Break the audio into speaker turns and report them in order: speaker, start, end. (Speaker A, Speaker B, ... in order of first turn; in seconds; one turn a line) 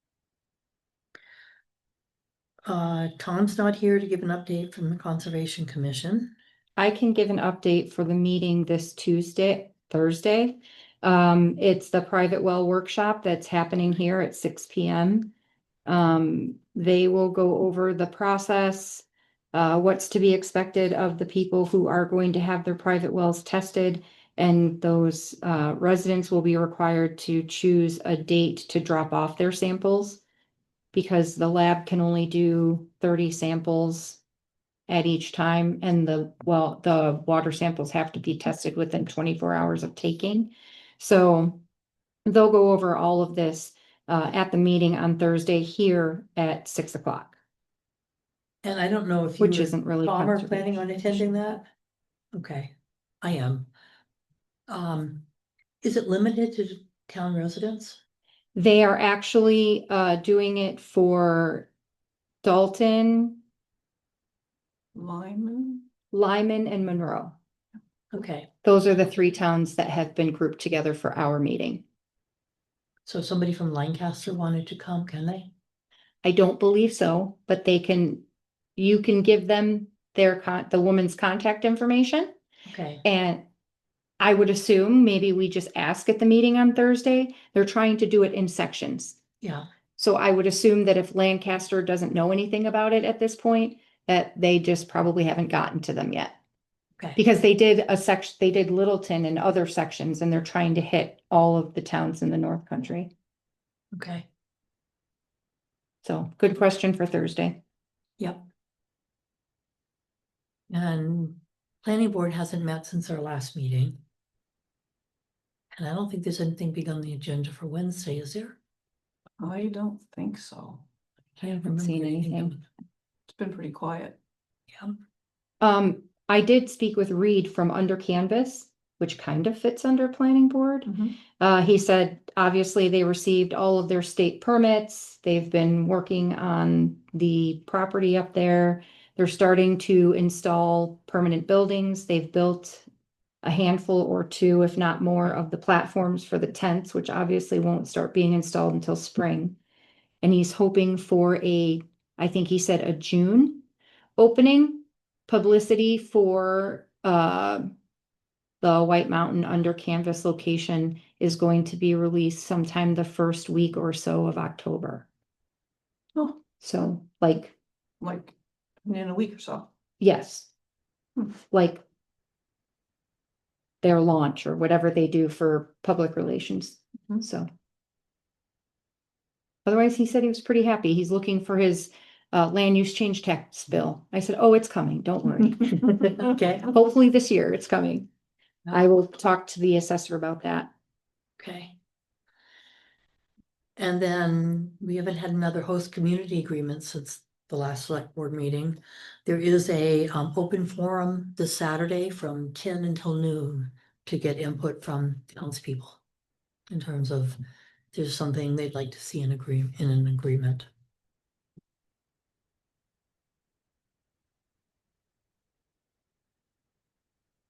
Speaker A: 2.6-6.3
Speaker B: 6.8-15.3
Speaker B: 15.8-30.2
Speaker B: 30.9-34.2
Speaker B: 34.9-41.6
Speaker B: 42.2-47.3
Speaker A: 48.6-51.7
Speaker B: 49.4-51.2
Speaker A: 52.3-53.7
Speaker A: 54.7-55.2
Speaker A: 55.8-58.0
Speaker B: 58.5-61.7
Speaker B: 62.4-63.4
Speaker C: 64.9-65.8
Speaker B: 66.1-67.3
Speaker A: 68.1-68.5
Speaker B: 68.6-71.8
Speaker A: 73.1-75.5
Speaker B: 76.2-78.2
Speaker B: 78.8-82.3
Speaker A: 82.7-83.0
Speaker B: 83.0-83.4
Speaker B: 84.2-89.2
Speaker B: 90.0-96.3
Speaker B: 97.2-103.1
Speaker A: 103.9-104.3
Speaker B: 106.0-107.6
Speaker A: 108.2-108.5
Speaker A: 110.7-114.0
Speaker A: 115.7-118.6
Speaker C: 119.4-120.8
Speaker A: 121.4-122.6
Speaker B: 121.4-122.5
Speaker C: 123.3-124.2
Speaker B: 125.6-142.8
Speaker B: 143.4-149.6
Speaker B: 150.2-153.6
Speaker B: 154.2-157.7
Speaker B: 158.6-165.1
Speaker B: 166.6-167.5
Speaker C: 168.0-169.7
Speaker B: 170.0-170.5
Speaker B: 171.5-171.8
Speaker B: 173.8-177.5
Speaker B: 179.6-188.1
Speaker A: 186.1-186.7
Speaker B: 188.7-190.7
Speaker A: 191.4-191.8
Speaker A: 193.8-206.0
Speaker A: 206.7-207.4
Speaker A: 207.9-210.7